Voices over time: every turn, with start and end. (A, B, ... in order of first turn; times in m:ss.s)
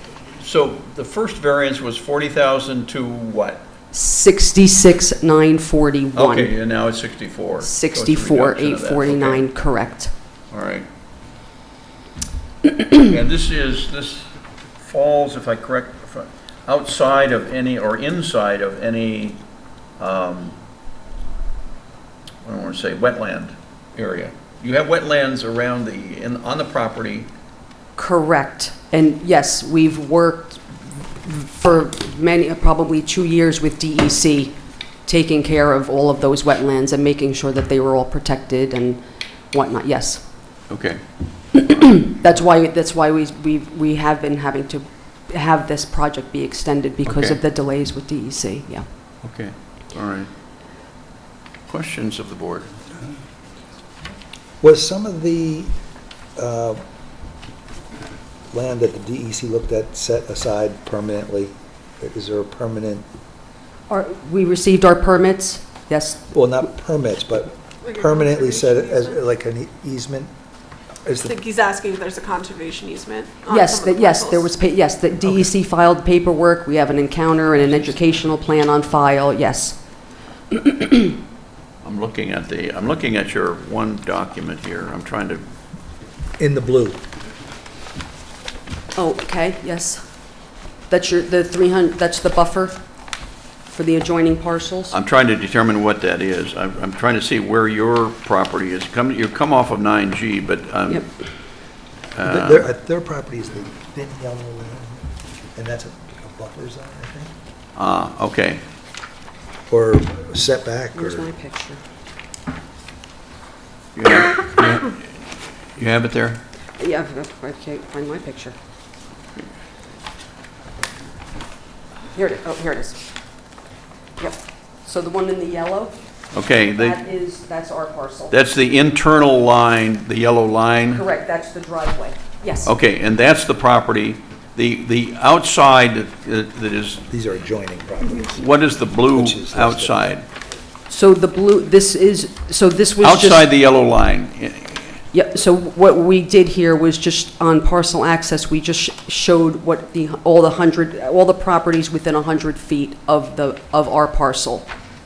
0:00.4-0:03.6 A
0:03.9-0:06.5 B
0:06.1-0:09.4 A
0:07.6-0:10.1 B
0:10.5-0:10.9 A
0:12.8-0:19.4 A
0:20.0-0:20.6 A
0:22.4-0:27.3 A
0:28.0-0:40.2 B
0:40.7-0:41.0 A
0:41.5-0:48.8 B
0:47.0-0:47.4 A
0:49.2-0:50.3 A
0:51.7-0:52.7 A
0:54.6-0:55.7 C
0:56.4-0:56.8 C
0:58.5-1:03.0 C
1:03.9-1:06.2 B
1:06.3-1:10.3 C
1:07.8-1:09.2 D
1:11.0-1:11.3 C
1:11.2-1:14.5 D
1:13.5-1:19.8 B
1:20.5-1:21.2 B
1:21.8-1:25.4 A
1:26.4-1:27.0 C
1:28.9-1:30.0 B
1:30.9-1:32.8 B
1:33.7-1:35.0 B
1:34.9-1:41.1 A
1:42.1-1:42.7 A
1:42.2-1:45.0 C
1:45.6-1:47.3 C
1:47.8-1:48.6 A
1:49.7-1:51.3 C
1:50.9-1:51.8 B
1:54.0-1:55.0 A
1:55.8-1:56.4 A
1:56.8-1:58.6 B
2:02.1-2:03.0 B
2:04.2-2:05.9 B
2:06.3-2:07.0 A
2:06.7-2:08.3 B
2:08.3-2:11.0 A
2:10.9-2:12.7 B
2:12.6-2:17.0 A
2:17.1-2:18.4 C
2:18.3-2:20.2 A
2:19.1-2:20.1 C
2:20.9-2:23.4 B
2:23.0-2:25.0 A
2:25.1-2:34.7 B